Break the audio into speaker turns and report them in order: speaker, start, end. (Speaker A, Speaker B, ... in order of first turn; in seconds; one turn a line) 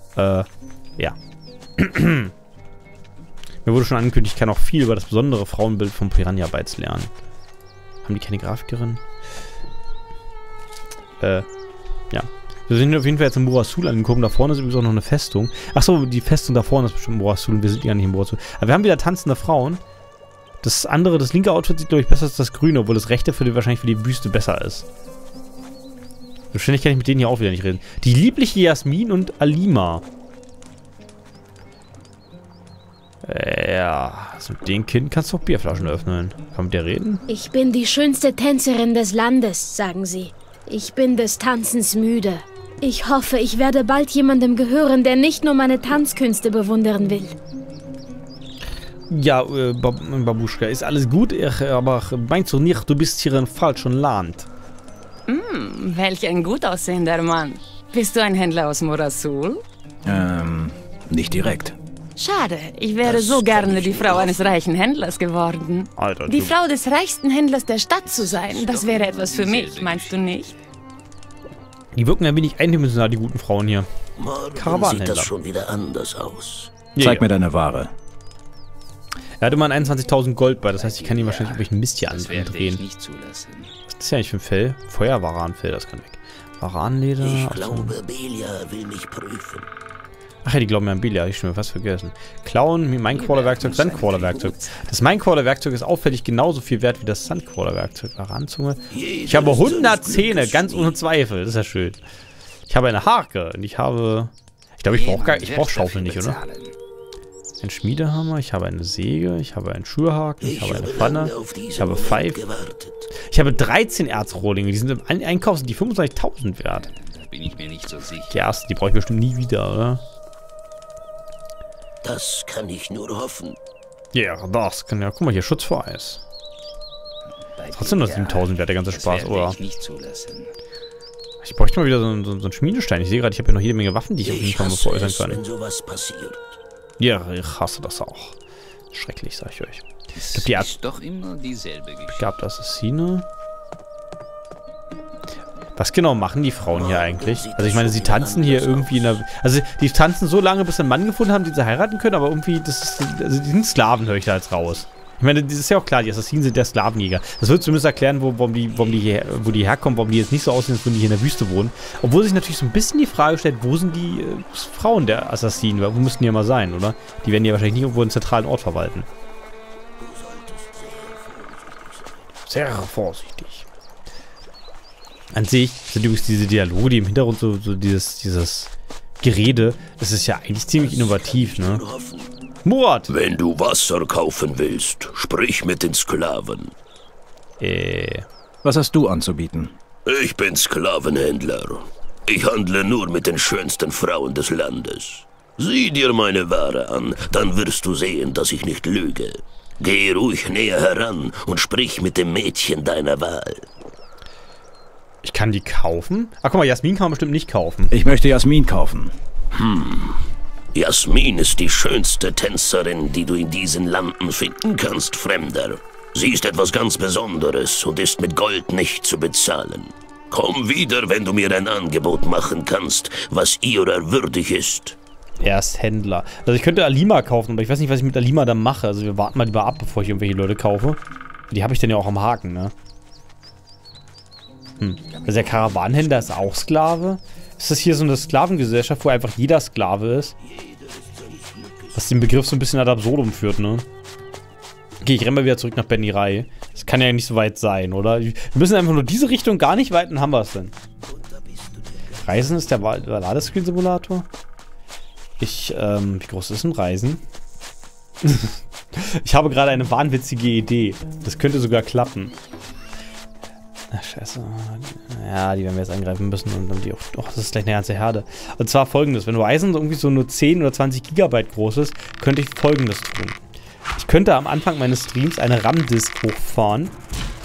Speaker A: 0.1-0.5
Speaker A: 1.8-2.3
Speaker A: 3.6-7.1
Speaker A: 8.0-9.0
Speaker A: 11.2-11.5
Speaker A: 12.1-19.8
Speaker A: 20.6-24.9
Speaker A: 26.5-30.0
Speaker A: 33.2-37.2
Speaker B: 37.3-47.4
Speaker A: 49.1-54.5
Speaker C: 55.3-59.6
Speaker D: 60.0-61.8
Speaker C: 62.2-70.5
Speaker E: 63.0-64.5
Speaker A: 66.0-66.6
Speaker F: 68.0-70.5
Speaker A: 72.0-73.9
Speaker E: 74.2-76.7
Speaker A: 74.5-75.3
Speaker A: 76.9-77.2
Speaker D: 77.0-77.9
Speaker A: 79.4-82.8
Speaker F: 80.7-83.7
Speaker A: 83.9-88.0
Speaker E: 87.2-89.7
Speaker A: 90.4-102.0
Speaker F: 93.1-94.8
Speaker E: 98.9-101.0
Speaker A: 102.7-106.4
Speaker F: 104.9-106.8
Speaker A: 107.6-112.4
Speaker E: 110.4-113.1
Speaker A: 113.2-116.9
Speaker F: 116.7-118.4
Speaker A: 118.3-120.0
Speaker E: 122.0-123.6
Speaker A: 124.1-126.2
Speaker F: 127.5-130.5
Speaker A: 127.7-129.6
Speaker A: 131.4-135.4
Speaker E: 134.2-136.4
Speaker A: 137.0-138.4
Speaker A: 138.9-140.7
Speaker F: 140.2-142.3
Speaker A: 142.1-143.2
Speaker A: 145.8-169.1
Speaker E: 146.8-149.2
Speaker F: 159.0-159.3
Speaker E: 170.0-171.9
Speaker A: 172.5-173.7
Speaker A: 175.3-181.8
Speaker E: 180.8-182.3
Speaker A: 182.7-183.1
Speaker E: 183.1-186.7
Speaker A: 187.6-188.3
Speaker D: 188.6-189.8
Speaker E: 190.1-203.7
Speaker A: 205.2-207.9
Speaker D: 207.9-209.2
Speaker E: 209.6-210.2
Speaker E: 210.7-225.0
Speaker A: 225.4-232.7
Speaker A: 234.8-240.3
Speaker E: 241.0-241.7
Speaker A: 241.9-243.9
Speaker A: 245.0-250.8
Speaker A: 252.2-254.3
Speaker A: 255.4-257.2
Speaker A: 258.2-262.4
Speaker A: 263.9-273.4
Speaker A: 273.9-277.0